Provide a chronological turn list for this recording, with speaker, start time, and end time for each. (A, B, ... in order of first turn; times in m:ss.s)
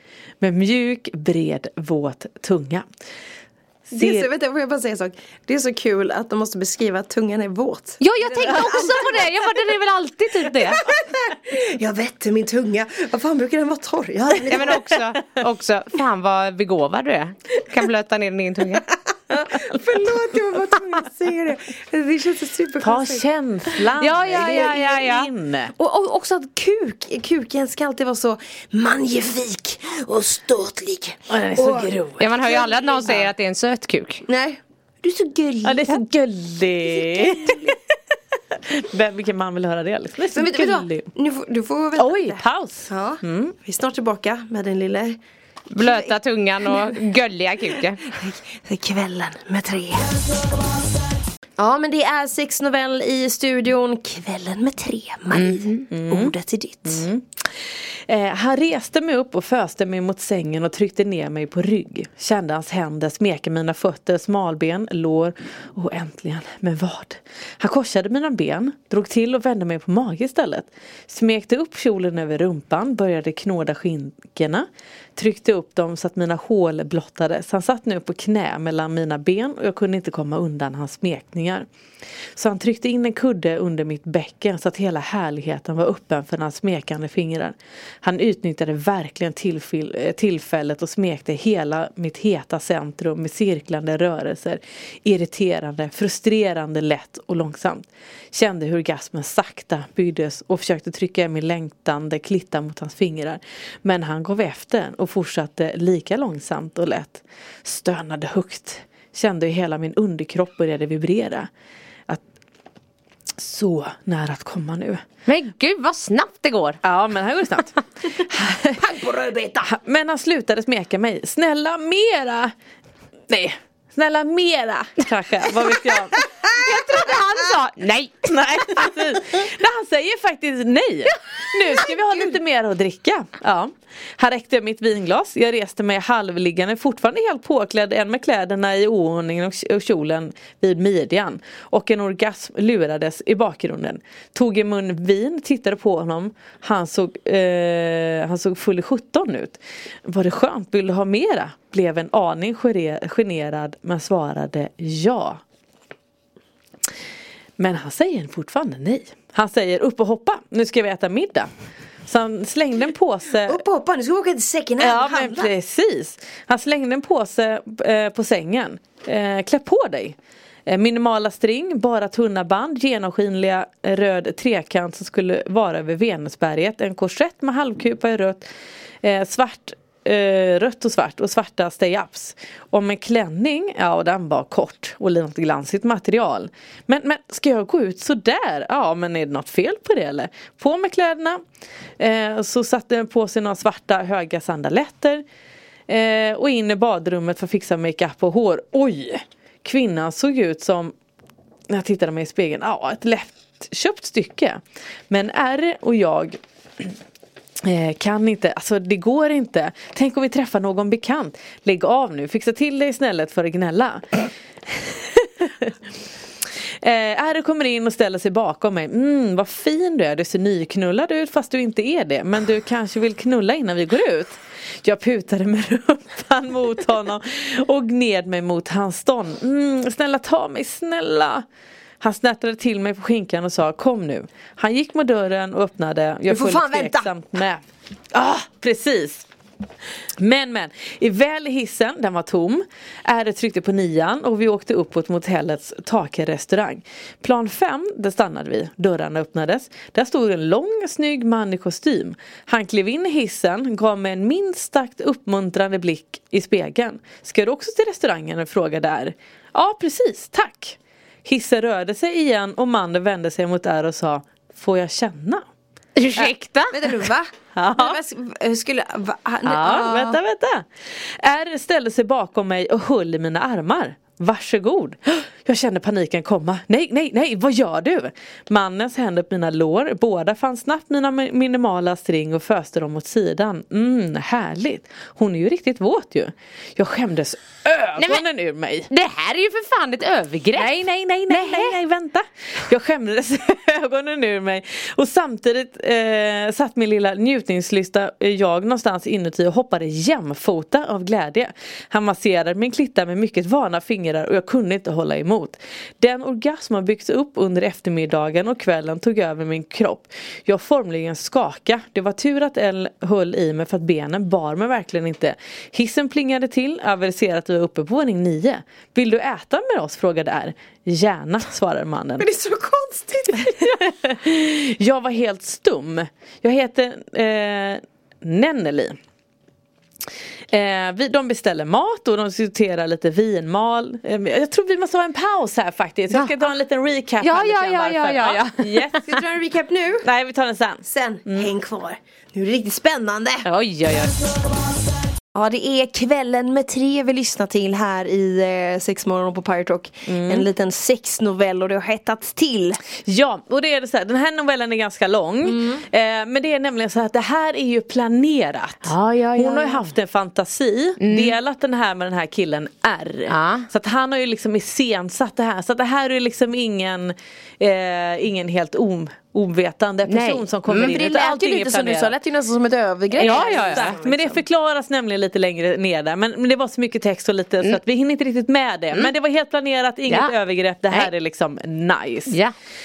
0:00.4-0:02.8 A
0:03.9-0:04.3 A
0:03.9-0:09.5 B
0:08.0-0:10.8 C
0:10.6-0:14.8 B
0:14.5-0:18.8 C
0:19.3-0:23.2 B
0:22.8-0:25.7 A
0:24.0-0:25.3 C
0:24.3-0:24.8 B
0:25.7-0:33.3 B
0:31.3-0:32.4 A
0:32.2-0:34.2 C
0:34.3-0:36.0 B
0:35.6-0:37.7 A
0:36.9-0:37.7 B
0:38.5-0:41.1 A
0:40.3-0:45.2 B
0:42.0-0:43.6 A
0:45.7-0:48.0 C
0:45.8-0:47.0 B
0:48.0-0:50.2 B
0:51.6-0:57.0 B
0:55.3-0:55.8 C
0:55.9-0:57.5 A
0:58.1-1:21.7 A
1:22.4-1:51.5 A
1:53.4-1:55.0 A
1:55.3-1:56.8 C
1:56.8-1:59.0 A
1:58.8-1:59.7 B
1:59.6-2:02.5 A
2:03.3-2:06.2 A
2:06.5-2:08.8 C
2:08.3-2:35.4 A
2:37.6-2:41.5 A
2:42.1-2:43.6 A
2:43.4-2:45.5 B
2:44.8-2:50.2 A
2:50.7-2:58.5 A
2:59.0-3:11.4 A
3:12.0-3:15.2 A
3:15.9-3:20.9 A
3:21.7-3:26.9 A
3:27.6-3:35.7 A
3:36.8-3:51.4 A
3:52.0-3:57.6 A
3:56.3-3:57.1 B
3:58.1-3:59.3 A
4:00.2-4:25.4 A
4:26.0-4:26.7 C
4:26.7-4:30.2 B
4:27.6-4:28.0 A
4:29.4-4:48.9 A
4:48.0-4:48.2 C
4:48.9-4:50.7 C
4:50.5-5:22.3 A
4:51.3-4:51.8 C
5:22.2-5:23.7 B
5:23.5-5:29.0 A
5:30.5-5:39.2 A
5:37.2-5:39.0 C
5:39.0-5:40.1 B
5:40.0-5:41.5 A
5:40.8-5:43.5 B
5:43.4-5:44.2 C
5:45.3-5:52.8 B
5:50.0-5:50.5 A
5:53.0-6:12.1 A
5:55.5-5:55.8 B
5:58.8-5:59.9 C
6:01.0-6:01.4 C
6:03.3-6:03.7 C
6:10.1-6:11.0 C
6:10.9-6:14.4 B
6:13.2-6:22.4 A
6:13.2-6:13.9 C
6:20.1-6:20.3 C
6:22.3-6:22.5 C